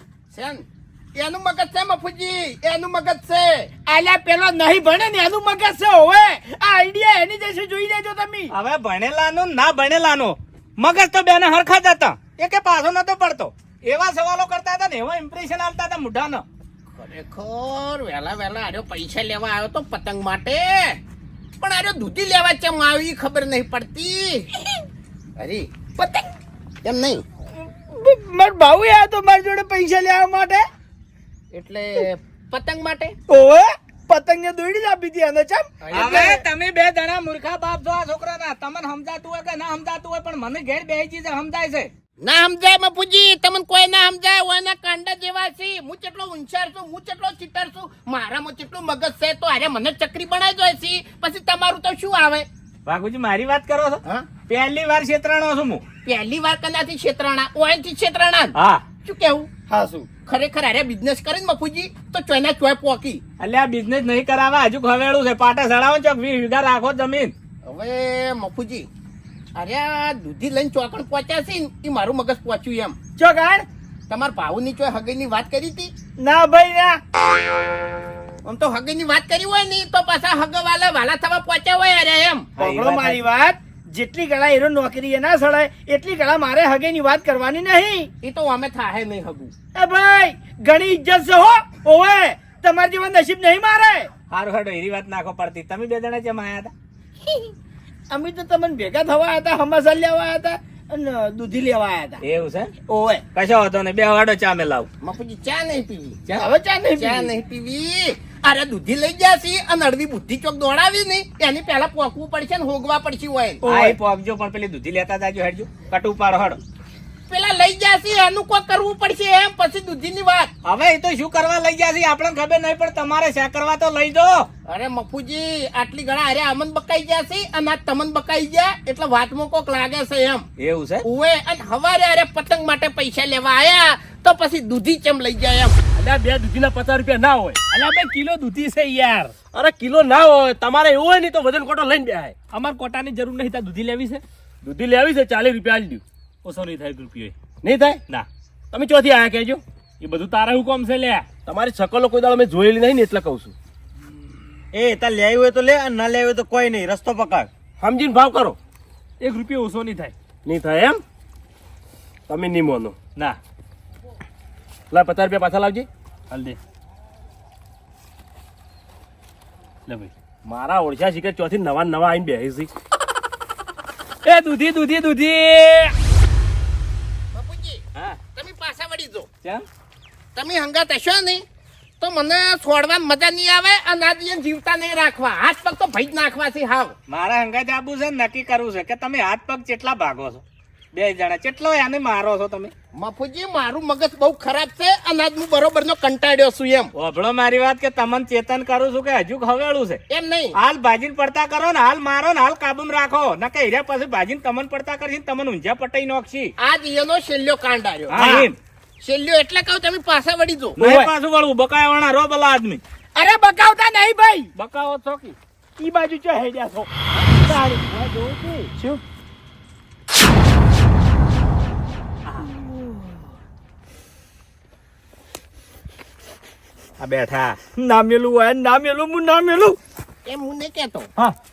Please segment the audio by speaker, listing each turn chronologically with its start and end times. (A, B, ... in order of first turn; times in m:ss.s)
0:00.3-0:00.6 A
0:01.2-0:03.8 A
0:03.9-0:08.5 B
0:08.5-0:16.4 C
0:17.0-0:21.0 A
0:21.6-0:24.5 A
0:25.4-0:26.2 A
0:26.8-0:27.2 A
0:27.6-0:30.6 B
0:31.5-0:33.2 A
0:33.3-0:36.3 B
0:35.8-0:36.4 A
0:35.9-0:41.9 C
0:42.2-0:52.5 A
0:52.8-0:55.8 C
0:56.0-0:59.5 A
0:58.5-0:58.8 C
0:59.7-1:00.0 D
1:00.2-1:03.2 A
1:03.4-1:07.3 C
1:07.6-1:08.9 A
1:09.6-1:13.0 A
1:13.2-1:13.6 B
1:14.1-1:15.9 A
1:16.2-1:17.0 B
1:18.4-1:22.5 A
1:22.6-1:23.2 C
1:22.6-1:28.1 B
1:28.2-1:29.5 A
1:29.7-1:34.1 B
1:34.3-1:36.7 C
1:38.1-1:42.2 B
1:42.2-1:42.7 C
1:42.9-1:43.2 B
1:43.3-1:44.9 C
1:45.0-1:46.2 A
1:46.4-1:47.3 B
1:47.0-1:53.6 A
1:53.6-1:54.0 B
1:53.6-1:56.6 C
1:57.3-2:00.5 A
2:00.6-2:04.5 C
2:04.7-2:10.4 A
2:10.6-2:11.0 C
2:11.0-2:15.8 A
2:16.0-2:17.6 D
2:17.7-2:19.3 E
2:19.5-2:22.3 D
2:22.5-2:24.2 E
2:24.6-2:26.0 D
2:26.4-2:27.3 E
2:27.6-2:28.0 D
2:28.7-2:29.6 D
2:30.0-2:31.2 E
2:31.4-2:33.5 D
2:34.7-2:37.5 F
2:37.8-2:38.6 D
2:39.2-2:40.1 E
2:40.4-2:41.0 D
2:42.3-2:43.0 D
2:44.9-2:45.9 D
2:46.3-2:46.6 E
2:50.4-2:52.7 D
2:54.2-2:55.9 E
2:57.3-2:57.8 A
2:58.3-2:59.3 A
3:00.3-3:01.4 A
3:02.0-3:06.9 A
3:07.1-3:12.7 C
3:13.0-3:16.9 A
3:16.9-3:20.0 C
3:20.1-3:20.6 A
3:20.5-3:26.5 C
3:26.6-3:28.2 A
3:28.1-3:28.6 C
3:28.1-3:28.5 B
3:29.0-3:30.8 A
3:30.8-3:32.8 C
3:30.8-3:31.1 B
3:33.2-3:34.5 B
3:34.6-3:35.4 C
3:35.8-3:36.9 B
3:37.4-3:37.8 B
3:37.8-3:38.7 A
3:38.7-3:39.0 B
3:47.0-3:47.6 C
3:47.8-3:49.8 B
3:50.3-3:51.1 A